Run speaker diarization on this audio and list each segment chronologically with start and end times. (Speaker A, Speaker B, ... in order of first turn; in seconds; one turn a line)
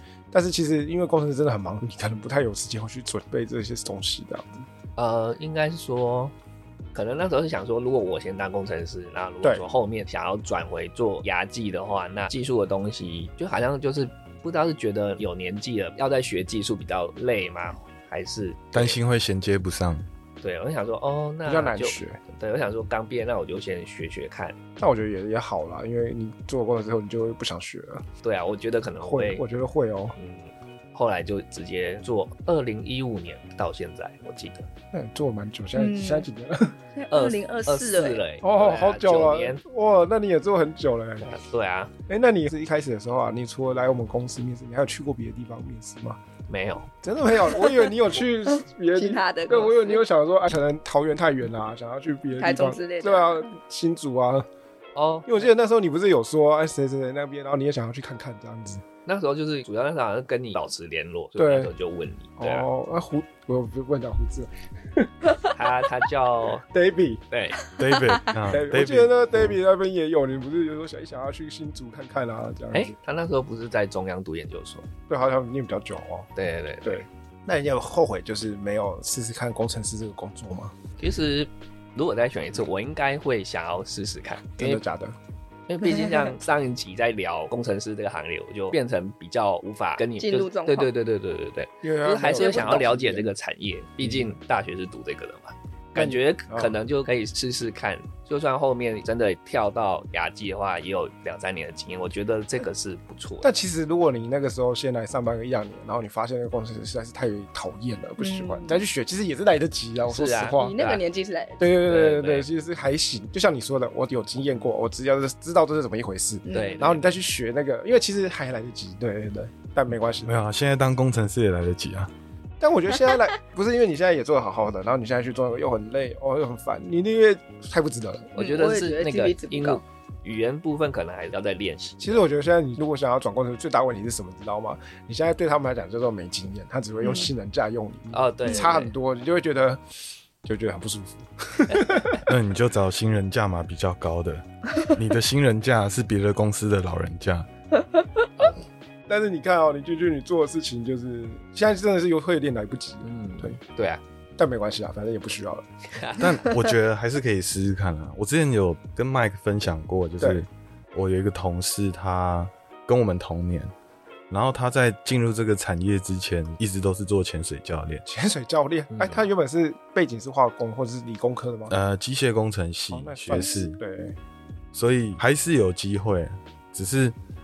Speaker A: 0.3-4.7
Speaker B: 5.0-6.3
Speaker B: 6.9-19.0
Speaker C: 18.7-20.1
Speaker B: 20.4-24.6
Speaker A: 21.4-22.2
Speaker A: 24.8-28.0
Speaker B: 28.2-29.4
Speaker A: 29.0-30.1
Speaker B: 30.2-34.7
Speaker A: 34.9-36.8
Speaker D: 35.8-36.3
Speaker D: 37.0-38.2
Speaker B: 37.1-39.6
Speaker A: 38.4-41.3
Speaker B: 41.2-41.9
Speaker A: 42.1-46.2
Speaker B: 46.5-46.9
Speaker A: 47.0-54.5
Speaker D: 49.0-50.0
Speaker D: 52.4-53.5
Speaker B: 55.0-55.5
Speaker A: 55.3-58.9
Speaker B: 59.1-62.7
Speaker A: 61.4-61.7
Speaker A: 62.4-65.4
Speaker B: 65.5-66.7
Speaker A: 66.6-67.2
Speaker B: 67.3-67.6
Speaker C: 67.7-69.6
Speaker A: 68.5-73.0
Speaker B: 72.7-74.9
Speaker A: 75.1-76.3
Speaker B: 76.4-77.1
Speaker A: 76.8-80.8
Speaker B: 81.0-84.8
Speaker A: 84.6-85.2
Speaker B: 85.7-103.5
Speaker D: 85.8-86.3
Speaker D: 90.2-90.9
Speaker A: 91.8-93.3
Speaker D: 92.4-92.8
Speaker A: 94.0-94.3
Speaker A: 96.0-96.7
Speaker A: 103.4-110.8
Speaker D: 108.2-108.8
Speaker B: 110.0-111.0
Speaker D: 110.5-111.7
Speaker A: 111.6-120.3
Speaker B: 111.8-112.5
Speaker D: 116.5-117.0
Speaker B: 116.5-117.0
Speaker C: 120.2-122.1
Speaker A: 122.6-128.6
Speaker B: 128.4-132.2
Speaker D: 128.4-129.8
Speaker A: 132.0-139.8
Speaker D: 137.0-137.3
Speaker B: 138.1-138.9
Speaker A: 140.4-142.2
Speaker C: 142.2-147.5
Speaker A: 149.1-153.6
Speaker B: 153.0-154.0
Speaker A: 154.4-155.7
Speaker B: 155.9-156.3
Speaker C: 156.2-163.7
Speaker A: 160.2-160.4
Speaker C: 164.3-168.1
Speaker A: 168.1-171.8
Speaker B: 168.9-169.2
Speaker C: 171.7-173.8
Speaker A: 172.9-174.2
Speaker C: 174.7-177.2